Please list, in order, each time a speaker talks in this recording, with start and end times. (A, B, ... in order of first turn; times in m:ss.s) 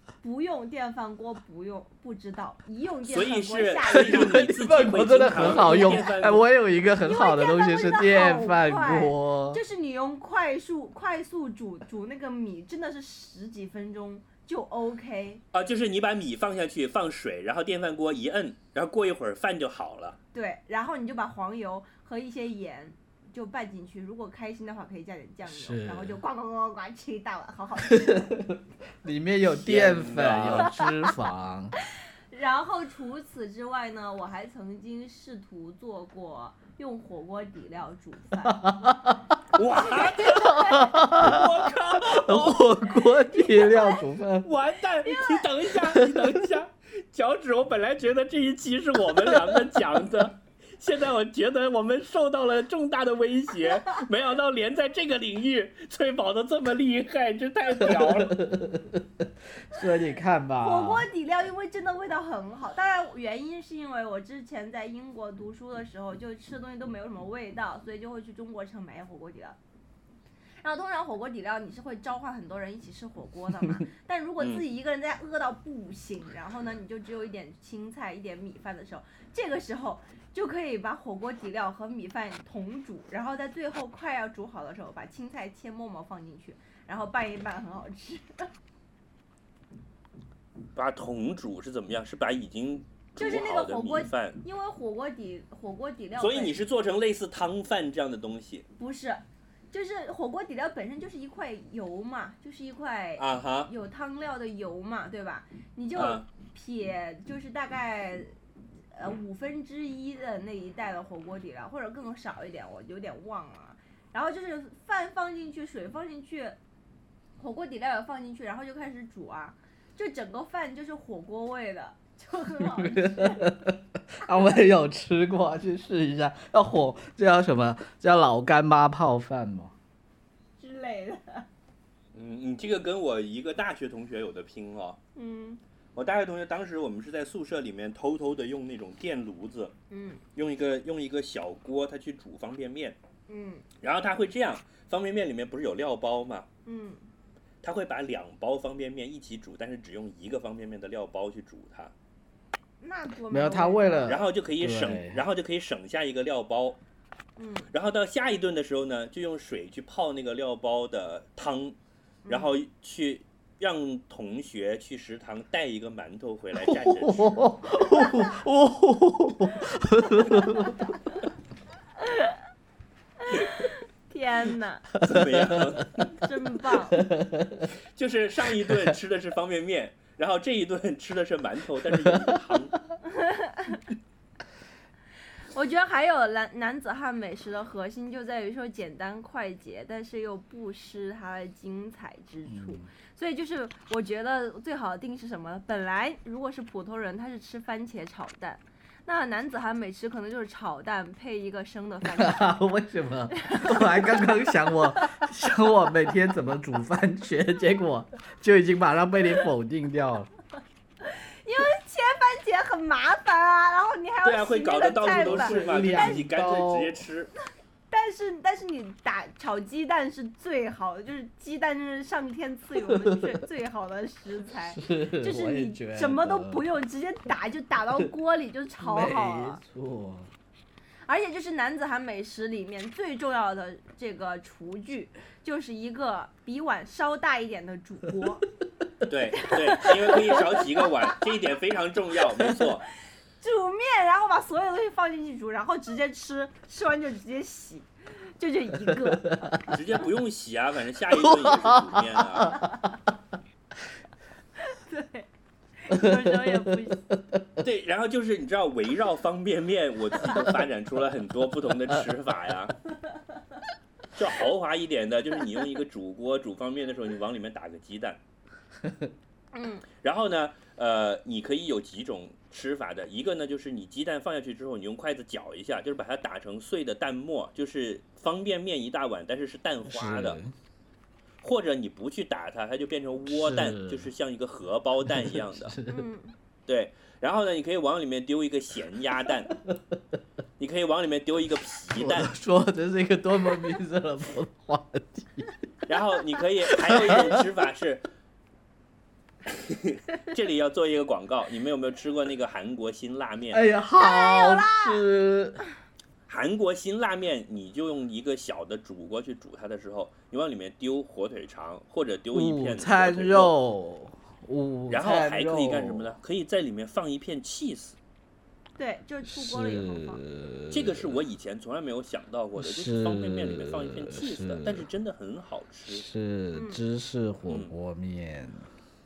0:00.2-0:04.5 A
0:03.1-0:06.4 B
0:03.9-0:09.6 C
0:05.3-0:06.0 A
0:07.0-0:15.4 A
0:15.5-0:20.2 B
0:20.3-0:28.4 A
0:25.5-0:26.2 C
0:27.8-0:31.7 C
0:29.4-0:30.7 B
0:32.3-0:38.6 A
0:38.5-0:39.6 C
0:39.5-0:40.6 B
0:39.7-0:41.1 A
0:40.3-0:44.5 C
0:41.1-0:42.8 B
0:42.9-0:44.0 A
0:44.4-0:58.4 B
0:45.0-0:45.5 A
0:45.8-0:46.4 C
0:57.7-1:01.1 C
1:00.6-1:09.6 A
1:10.6-1:28.5 A
1:30.7-1:34.4 B
1:33.2-1:36.6 A
1:36.2-1:38.6 B
1:38.8-1:48.3 A
1:43.2-1:43.7 B
1:45.9-1:46.3 B
1:48.9-1:56.6 A
1:57.4-2:03.6 A
2:02.6-2:09.7 C
2:10.6-2:11.5 A
2:12.1-2:15.0 B
2:15.2-2:15.6 A
2:15.9-2:19.7 B
2:19.9-2:20.2 A
2:20.3-2:23.0 B
2:23.3-2:23.6 A
2:23.8-2:26.5 B
2:26.6-2:27.0 A
2:27.6-2:31.9 B
2:32.8-2:34.1 A
2:33.3-2:35.2 C
2:34.1-2:36.8 B
2:37.4-2:37.7 A
2:37.7-2:41.8 B
2:42.2-2:42.5 A
2:42.3-2:47.4 B
2:46.6-2:50.9 C
2:52.0-2:52.4 A
2:53.2-2:54.8 A
2:55.0-2:56.1 C
2:55.0-2:56.1 B
2:56.2-2:57.0 A
2:57.0-2:57.7 C
2:57.9-3:02.8 B
2:58.6-2:59.0 C
3:02.0-3:02.4 C
3:03.1-3:03.8 A
3:05.5-3:22.6 A
3:12.5-3:12.9 C
3:22.2-3:30.3 C
3:23.4-3:24.2 A
3:31.0-3:36.2 A
3:34.2-3:37.3 B
3:35.1-3:37.0 C
3:37.9-3:49.6 A
3:42.8-3:43.4 C
3:44.7-3:46.6 C
3:48.8-3:50.3 C
3:51.1-3:58.4 A
3:59.1-4:02.9 B
3:59.4-4:00.6 A
4:03.4-4:09.7 A
4:08.9-4:09.8 C
4:09.6-4:12.6 B
4:11.1-4:12.8 C
4:14.6-4:15.3 A
4:15.8-4:17.0 A
4:15.9-4:17.6 C
4:17.6-4:22.8 B
4:24.1-4:28.2 B
4:29.5-4:29.8 A
4:30.0-4:40.4 B
4:39.8-4:40.5 C
4:41.4-4:45.7 B
4:43.2-4:44.1 C
4:45.0-4:46.0 C
4:45.9-4:46.3 A
4:46.7-4:49.5 B
4:50.6-4:52.3 B
4:52.0-4:55.5 C
4:55.9-4:58.0 B
4:56.7-4:57.5 C
4:59.4-5:03.6 B
5:03.5-5:05.6 C
5:04.0-5:05.0 A
5:06.3-5:13.5 B
5:12.3-5:16.2 C
5:14.9-5:18.0 B
5:18.8-5:20.2 A
5:19.3-5:21.2 C
5:20.7-5:26.0 B
5:22.6-5:24.8 C
5:25.9-5:28.7 C
5:26.5-5:26.8 A
5:27.5-5:27.7 B